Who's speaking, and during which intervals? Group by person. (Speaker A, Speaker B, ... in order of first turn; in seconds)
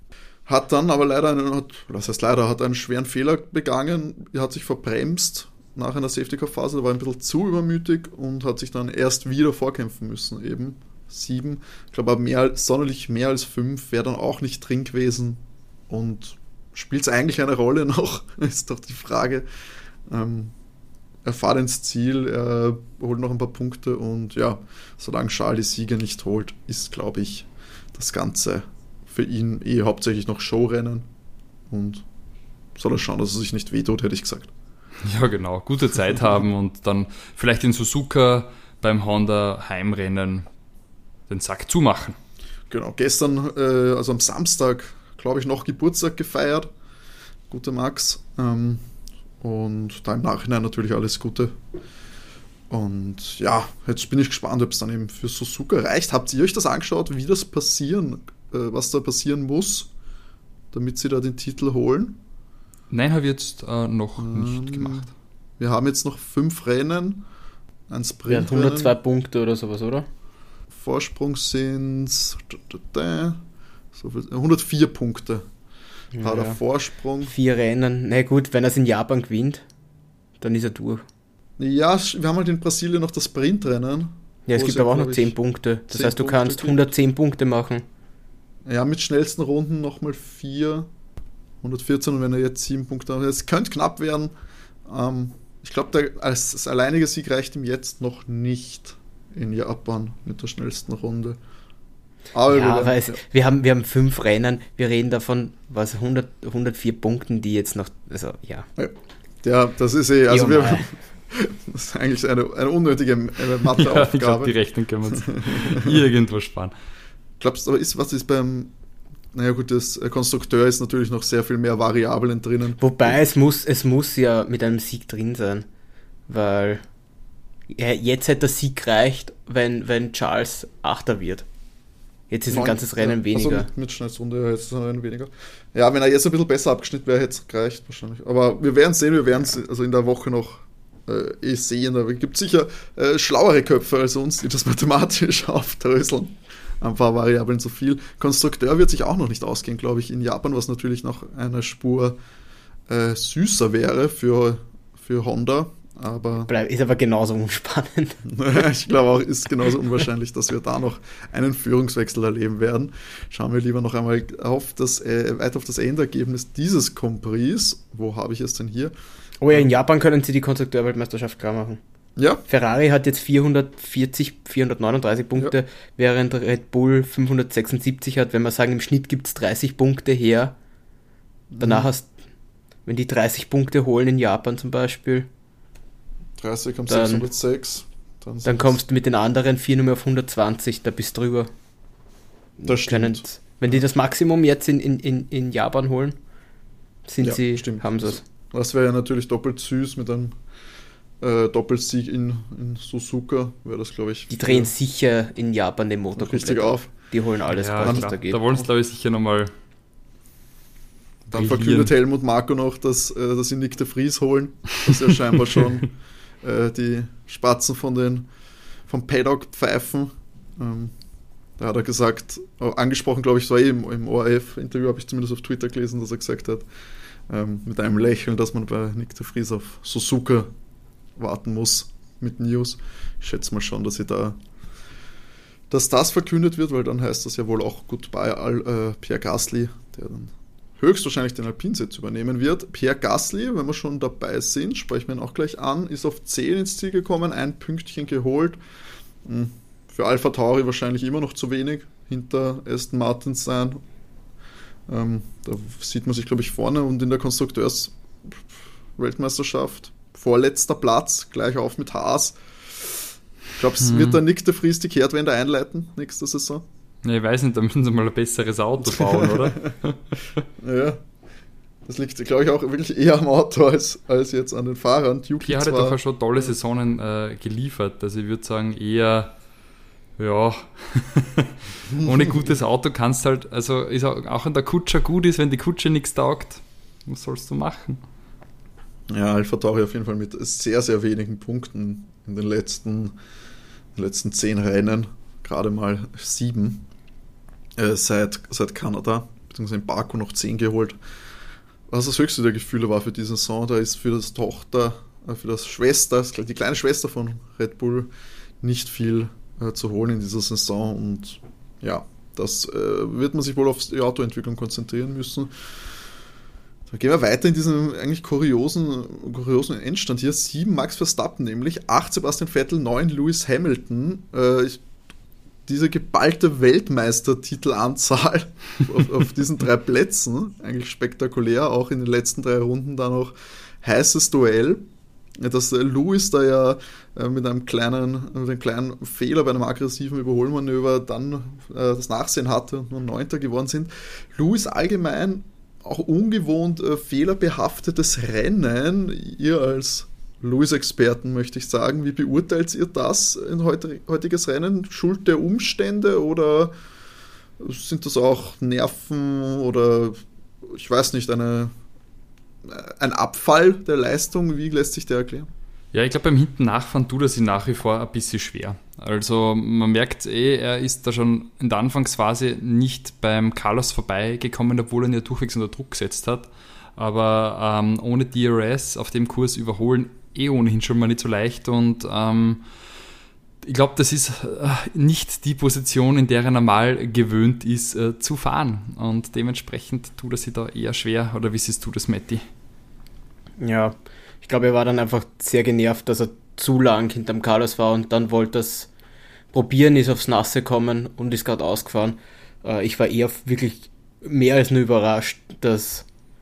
Speaker A: 0.5-19.5, 20.1-20.5, 21.2-31.1, 31.7-32.0, 32.8-34.5, 42.7-46.7, 47.5-48.8, 49.4-51.5, 52.7-59.9, 60.7-62.2, 64.2-67.2, 67.9-68.9, 70.7-73.4, 73.9-75.5, 76.2-77.3, 81.6-85.3, 85.9-86.8, 88.7-90.9, 91.6-94.3, 94.9-101.4, 102.3-103.2, 108.8-114.5, 115.1-115.9, 117.4-118.7, 119.3-123.1, 132.5-152.2, 152.9-156.5, 158.3-168.9, 181.5-181.9, 186.4-188.8, 192.7-193.8, 197.2-200.3, 201.2-204.7, 206.2-206.9, 207.8-208.6, 211.3-218.3, 218.9-220.9, 221.6-226.7, 227.3-230.5, 231.2-234.4, 235.7-248.6, 249.2-253.8, 254.9-258.3, 259.0-262.4, 263.6-266.6, 268.9-269.7, 270.6-271.0, 271.9-276.0, 281.9-282.5, 289.1-293.1, 294.0-296.8, 297.8-301.0, 301.9-308.1, 308.6-315.5, 316.9-324.8, 325.7-334.8, 335.4-356.7, 357.6-361.7, 362.7-365.5
Speaker B: 35.0-40.5, 41.3-42.2, 62.9-65.1, 113.8-116.7, 207.5-209.5, 211.3-211.9, 263.8-264.2, 267.0-270.0, 275.4-279.3, 280.2-288.0, 365.9-382.6, 383.6-392.4
Speaker C: 68.3-70.1, 76.1-76.6, 77.2-79.6, 80.4-81.0, 84.5-87.8, 102.5-108.7, 110.3-110.9, 122.8-125.7, 126.3-126.8, 127.7-131.4, 132.3-133.7, 156.5-158.2, 169.4-171.8, 172.5-180.5, 181.6-182.1, 182.9-185.3, 186.9-187.3, 188.4-191.5, 192.6-196.2, 197.1-198.2, 204.3-208.4, 393.6-398.9, 399.5-406.1